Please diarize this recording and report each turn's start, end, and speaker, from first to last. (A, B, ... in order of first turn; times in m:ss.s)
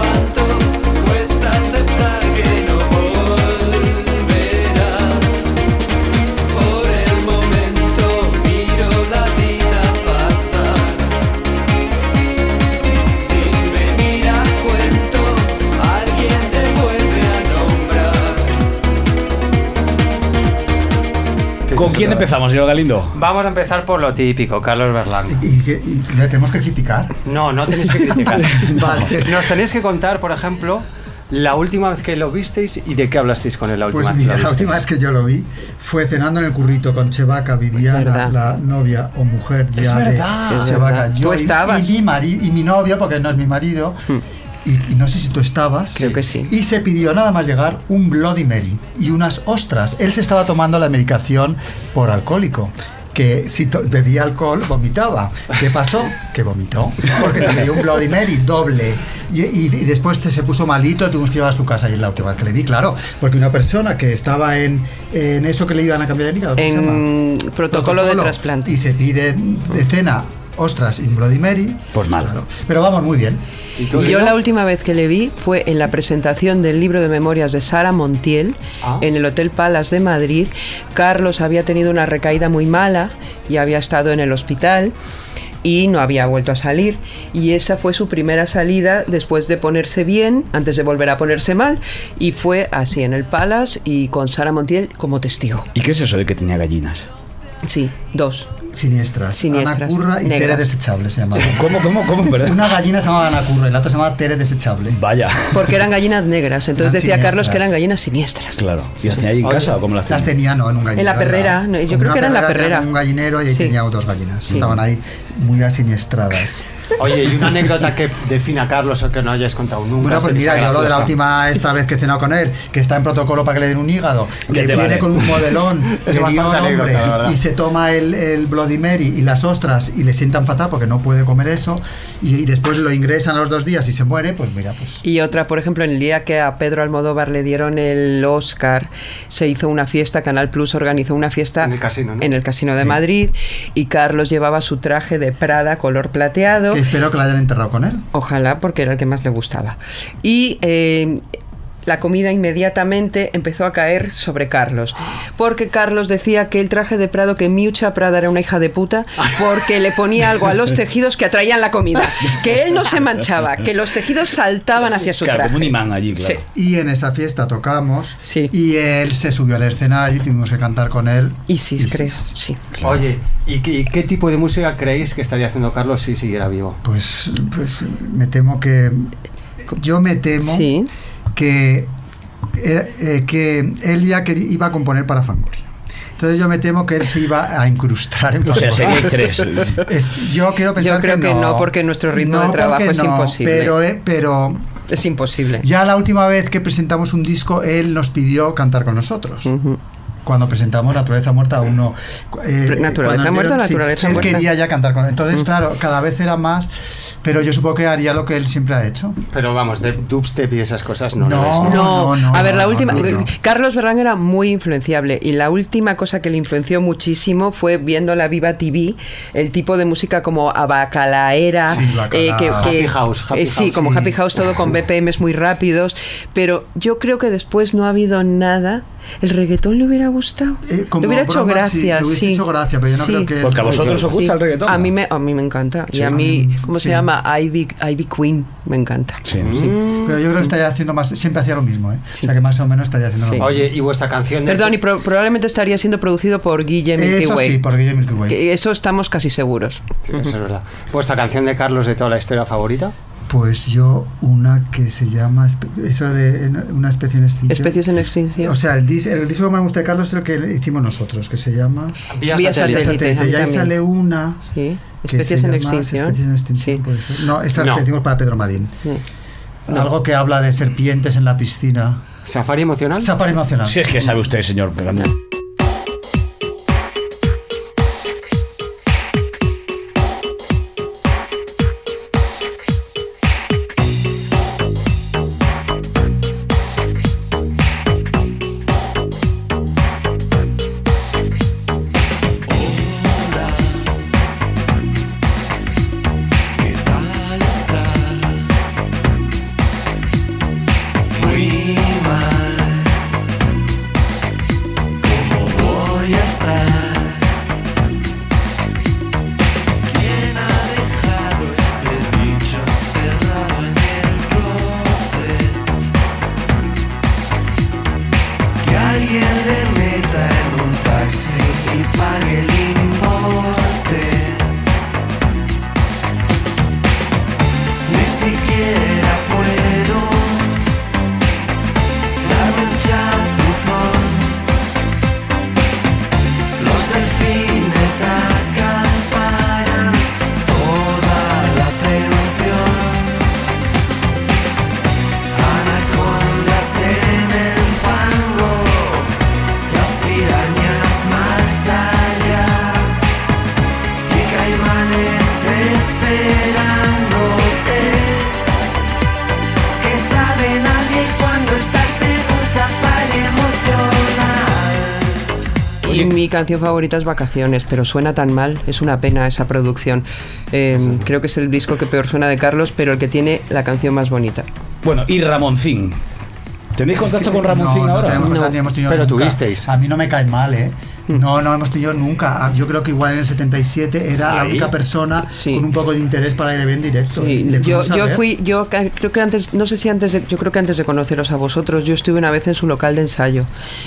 0:21.7-0:22.3 A
0:21.7-0:23.1 B
0:23.1-0:25.4 A
0:25.3-0:27.2 C
0:27.2-0:34.8 A
0:28.5-0:29.4 C
0:28.5-0:29.1 B
0:33.9-0:44.0 C
0:37.9-0:38.3 D
0:39.8-0:40.8 A
0:40.5-0:42.0 D
0:44.6-1:07.1 C
0:46.0-0:46.5 D
1:06.6-1:08.7 D
1:07.7-1:13.4 C
1:11.9-1:12.3 B
1:13.8-1:14.4 A
1:13.9-1:24.9 D
1:25.6-1:35.7 D
1:35.8-1:37.1 B
1:37.6-1:38.5 D
1:38.7-1:45.0 C
1:39.4-1:40.7 D
1:41.4-1:42.6 B
1:44.9-1:45.8 B
1:45.5-1:48.6 D
1:46.8-1:47.7 C
1:48.6-1:50.3 B
1:49.4-1:49.7 A
1:50.1-1:56.6 C
1:50.9-1:52.9 D
1:53.5-1:53.8 D
1:57.0-2:01.1 A
2:00.0-2:15.0 C
2:04.5-2:05.4 B
2:06.0-2:07.4 A
2:15.0-2:26.8 D
2:21.6-2:22.3 A
2:26.7-2:28.0 C
2:28.1-2:31.2 D
2:31.8-2:46.4 D
2:45.2-2:46.4 B
2:46.5-2:52.3 C
2:48.2-2:48.5 D
2:51.5-2:52.6 D
2:52.8-2:56.8 A
2:56.8-2:59.1 C
2:59.6-3:00.7 C
3:00.4-3:00.9 D
3:01.3-3:01.9 C
3:02.5-3:05.7 C
3:06.2-3:14.6 C
3:08.5-3:09.8 B
3:10.8-3:13.8 D
3:14.9-3:15.7 D
3:15.6-3:19.5 C
3:19.4-3:19.8 D
3:20.2-3:26.7 C
3:22.7-3:24.5 D
3:27.2-3:29.2 C
3:29.3-3:32.0 A
3:31.2-3:33.3 C
3:31.6-3:53.3 D
3:41.7-3:42.8 C
3:42.6-3:44.1 A
3:50.6-3:54.0 C
3:53.4-3:54.9 B
3:53.6-3:54.0 A
3:54.1-3:59.8 D
3:55.9-3:57.1 C
3:59.3-3:59.6 B
3:59.4-4:00.2 A
3:59.9-4:03.7 C
4:03.2-4:03.4 D
4:03.4-4:04.8 A
4:04.4-4:07.6 D
4:06.9-4:08.4 C
4:08.3-4:09.9 D
4:10.0-4:12.9 A
4:13.3-4:17.8 C
4:17.5-4:18.6 D
4:18.4-4:24.4 C
4:22.1-4:23.0 A
4:22.3-4:23.7 D
4:24.5-4:26.8 D
4:25.1-4:28.8 C
4:27.6-4:27.8 A
4:29.7-4:32.0 C
4:32.2-4:33.1 A
4:33.0-4:33.9 C
4:33.6-4:35.1 B
4:52.5-4:53.8 E
4:56.6-4:58.6 E
5:01.2-5:03.0 E
5:05.0-5:07.3 E
5:09.9-5:15.8 E
5:18.6-5:24.5 E
5:27.9-5:30.6 E
5:32.2-5:34.4 E
5:36.6-5:43.2 E
5:45.3-5:49.1 E
5:49.7-5:52.9 E
5:54.1-5:58.3 E
5:59.8-6:05.2 E
6:05.8-6:14.5 D
6:14.8-6:16.0 B
6:16.8-6:18.3 B
6:16.9-6:28.2 C
6:18.2-6:18.6 D
6:18.8-6:19.7 A
6:24.2-6:24.7 A
6:25.4-6:25.6 D
6:27.2-6:33.5 D